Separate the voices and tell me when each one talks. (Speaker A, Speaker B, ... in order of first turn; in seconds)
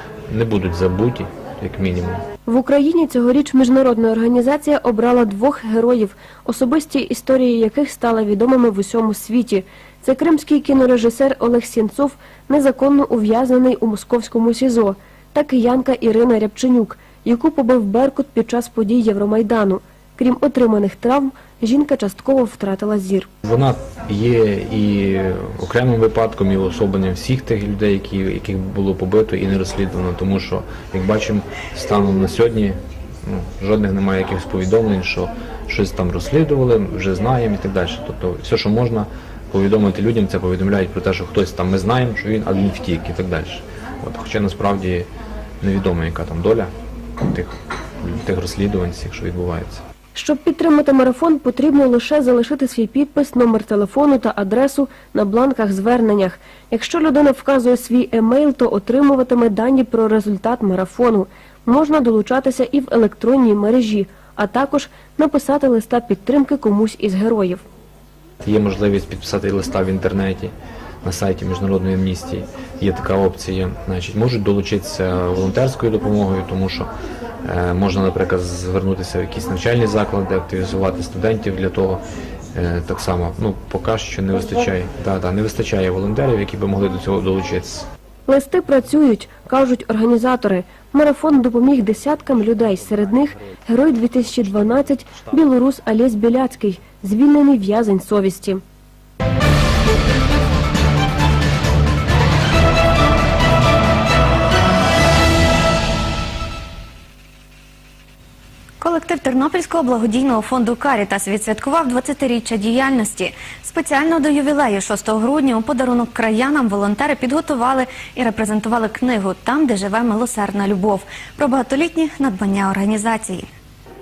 Speaker A: 0.3-2.2, 23.4-45.1, 45.6-46.7, 47.3-49.8, 68.4-76.9, 77.4-82.0, 82.5-87.9
Speaker B: 2.5-23.3, 50.1-67.6, 88.3-98.6
Speaker C: 108.8-123.5